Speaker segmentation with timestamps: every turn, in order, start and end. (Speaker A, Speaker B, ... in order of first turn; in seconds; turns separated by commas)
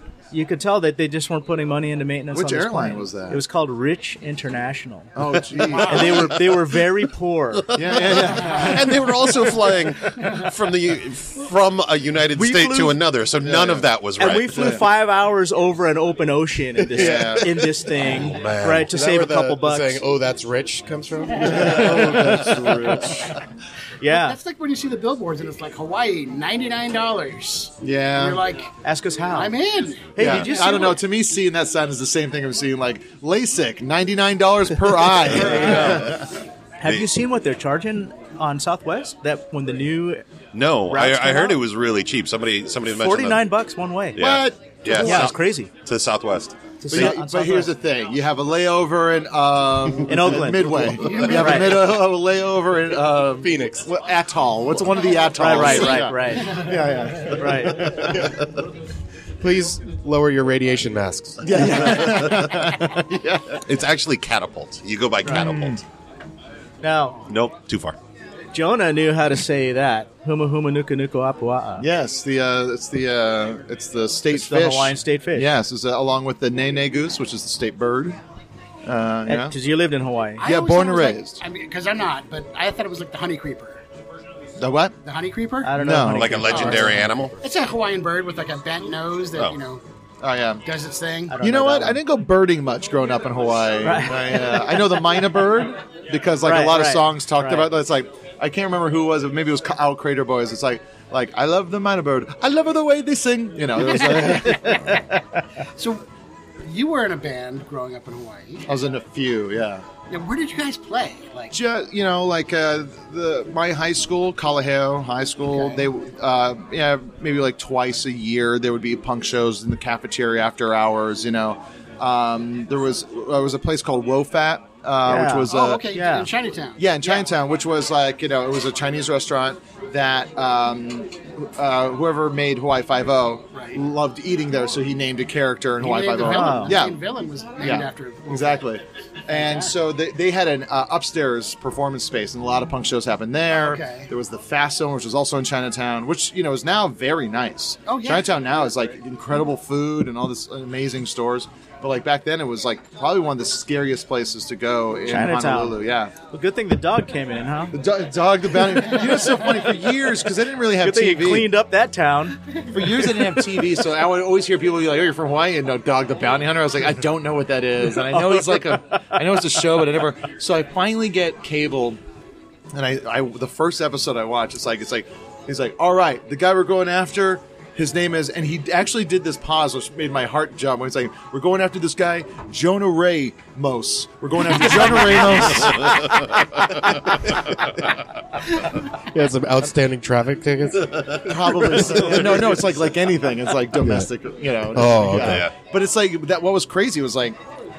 Speaker A: 0.3-5.1, Speaker B: 2.3-3.4, Speaker B: 5.2-6.4, Speaker A: 5.7-7.7, Speaker C: 7.7-14.7, Speaker B: 7.7-9.7, Speaker A: 12.3-13.0, Speaker B: 13.4-13.9, Speaker A: 14.2-20.1, Speaker B: 14.6-14.8, Speaker D: 16.8-22.7, Speaker B: 16.9-17.5, Speaker B: 21.4-23.3, Speaker A: 21.6-22.3, Speaker A: 24.0-24.4, Speaker E: 24.1-28.7, Speaker B: 27.8-28.4, Speaker A: 28.8-29.6, Speaker E: 29.3-31.0, Speaker A: 30.1-31.0, Speaker B: 30.2-36.3, Speaker A: 35.3-36.2, Speaker E: 35.5-36.1, Speaker A: 36.8-40.2, Speaker C: 40.5-43.5, Speaker A: 40.9-41.6, Speaker A: 42.9-44.2, Speaker C: 44.1-47.2, Speaker B: 44.2-45.3, Speaker A: 44.9-45.7, Speaker A: 46.8-47.7, Speaker B: 46.9-58.4, Speaker A: 50.1-51.9, Speaker E: 51.1-51.4, Speaker D: 53.4-53.9, Speaker A: 55.3-56.7, Speaker A: 57.3-58.0, Speaker D: 59.4-61.6, Speaker B: 61.4-63.6, Speaker C: 63.6-65.8, Speaker B: 65.3-65.8, Speaker A: 66.8-67.2, Speaker C: 67.3-68.0, Speaker A: 68.5-71.9, Speaker B: 71.8-78.2, Speaker A: 74.3-75.5, Speaker B: 78.8-79.6, Speaker A: 79.3-80.5, Speaker E: 80.4-83.8, Speaker B: 80.4-81.4, Speaker B: 84.6-85.0, Speaker E: 85.0-85.8, Speaker A: 85.6-87.4, Speaker B: 85.7-87.0, Speaker C: 86.1-87.3, Speaker E: 87.4-89.8, Speaker B: 90.2-90.7, Speaker E: 90.7-91.4, Speaker A: 91.3-92.0, Speaker B: 91.4-105.0, Speaker A: 93.8-95.0, Speaker A: 96.4-97.7, Speaker E: 104.1-104.7, Speaker A: 104.3-105.2, Speaker E: 105.8-106.0, Speaker E: 106.6-108.7, Speaker B: 108.7-109.9, Speaker E: 110.1-111.5, Speaker B: 111.5-125.9, Speaker E: 115.5-115.8, Speaker A: 125.0-126.3, Speaker E: 125.5-127.3, Speaker B: 126.8-137.0, Speaker E: 133.5-133.8, Speaker E: 135.8-138.7, Speaker A: 136.2-136.8, Speaker B: 137.6-156.1, Speaker E: 139.3-139.7, Speaker E: 143.6-144.1, Speaker E: 147.8-148.3, Speaker A: 155.1-157.8, Speaker B: 157.7-161.5, Speaker A: 160.8-162.4, Speaker B: 162.7-172.0, Speaker A: 168.5-168.9, Speaker B: 172.7-186.5, Speaker A: 184.6-185.0, Speaker C: 185.6-186.6, Speaker C: 187.3-187.7, Speaker D: 189.0-192.7, Speaker C: 190.8-192.0, Speaker B: 191.2-197.4, Speaker D: 193.8-194.1, Speaker D: 194.7-195.5, Speaker C: 195.1-195.5